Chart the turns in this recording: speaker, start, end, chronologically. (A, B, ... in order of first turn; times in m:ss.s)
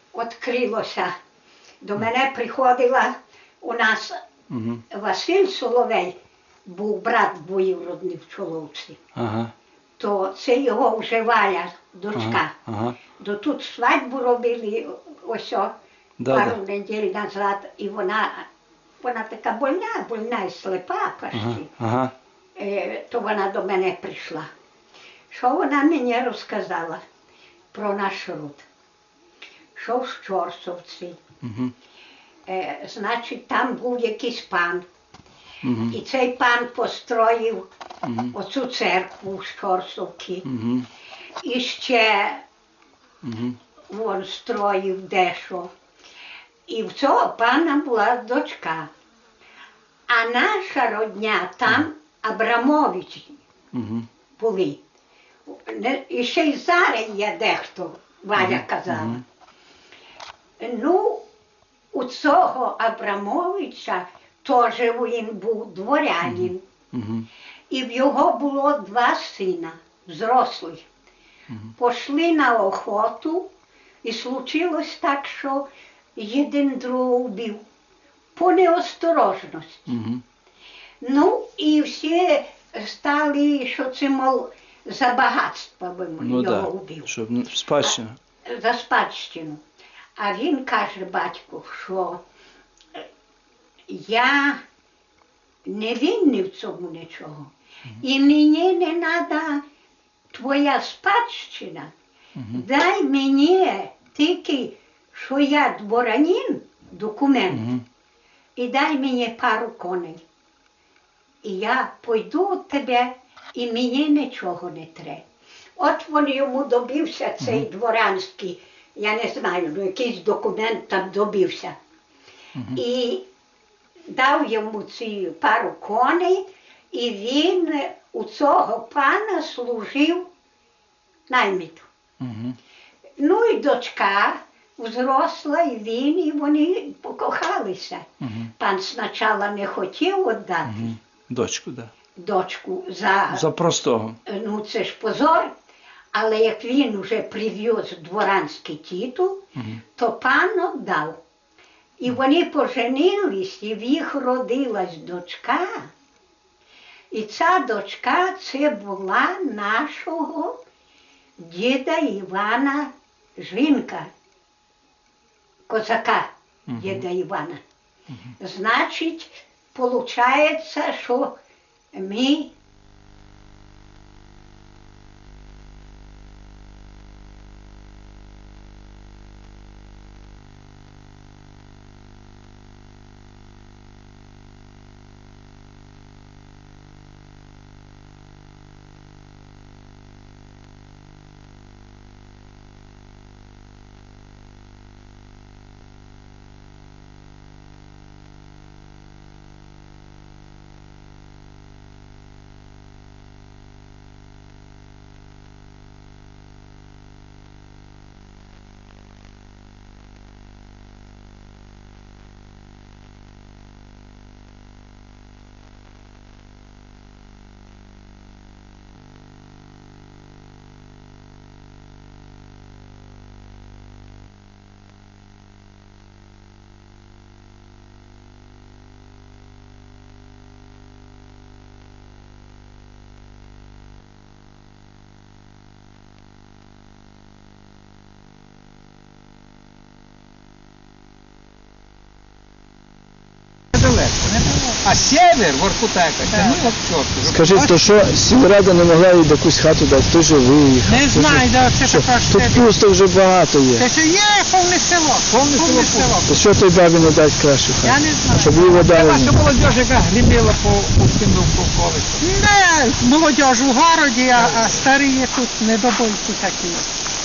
0:00.1-0:01.1 A
0:01.8-0:04.2 A
0:04.5-0:04.8 B
0:04.9-0:09.0 A
0:09.2-0:09.5 B
0:10.0-0:12.5 A
0:12.2-0:13.0 B
0:13.2-0:15.7 A
0:16.2-0:16.6 B
0:16.3-0:18.5 A
0:19.0-0:21.7 A
0:21.3-0:22.1 B
0:22.6-0:24.5 A
0:25.3-0:27.0 A
0:27.7-0:28.7 A
0:29.8-0:31.2 A
0:31.4-0:31.7 B
0:32.5-0:34.9 A
0:35.6-0:36.0 B
0:35.9-0:37.7 A
0:38.0-0:38.3 B
0:38.3-0:40.5 A
0:40.4-0:40.9 B
0:41.4-0:42.4 A
0:43.2-0:43.6 B
0:43.9-0:45.7 A
0:46.7-0:48.9 A
0:50.1-0:53.4 A
0:53.7-0:54.1 B
0:54.4-0:54.8 A
0:55.5-0:59.2 A
0:58.4-0:59.2 B
1:00.6-1:01.2 A
1:01.9-1:06.6 A
1:06.2-1:07.3 B
1:07.7-1:10.9 A
1:11.8-1:13.5 A
1:14.0-1:17.6 A
1:18.4-1:19.9 A
1:19.9-1:20.2 B
1:21.0-1:27.1 A
1:26.2-1:28.2 B
1:28.5-1:29.6 A
1:30.2-1:32.2 A
1:33.9-1:34.6 A
1:35.7-1:39.6 A
1:40.3-1:41.9 A
1:42.4-1:42.6 B
1:42.5-1:47.8 A
1:47.5-1:47.8 B
1:48.6-1:50.2 A
1:51.4-1:55.2 A
1:55.8-2:01.8 A
2:02.6-2:02.8 B
2:02.7-2:03.3 A
2:04.1-2:10.3 A
2:11.3-2:11.9 A
2:12.2-2:12.6 B
2:13.2-2:18.1 A
2:18.2-2:18.5 B
2:18.6-2:21.0 A
2:20.6-2:21.9 B
2:22.2-2:23.4 A
2:23.3-2:24.2 B
2:24.3-2:25.5 A
2:26.1-2:29.4 A
2:30.0-2:31.2 A
2:32.0-2:35.9 A
2:37.1-2:40.6 A
2:41.4-2:44.1 A
2:45.7-2:47.6 A
2:46.7-2:47.1 B
2:48.4-2:51.4 A
2:51.9-2:52.5 A
4:03.8-4:07.5 C
4:04.4-4:04.8 D
4:06.3-4:06.7 D
4:07.2-4:13.9 E
4:07.4-4:07.8 D
4:10.9-4:12.7 D
4:13.8-4:16.3 D
4:15.3-4:16.2 C
4:16.2-4:19.4 E
4:17.8-4:18.7 D
4:18.8-4:22.3 C
4:22.2-4:26.9 D
4:24.3-4:24.8 C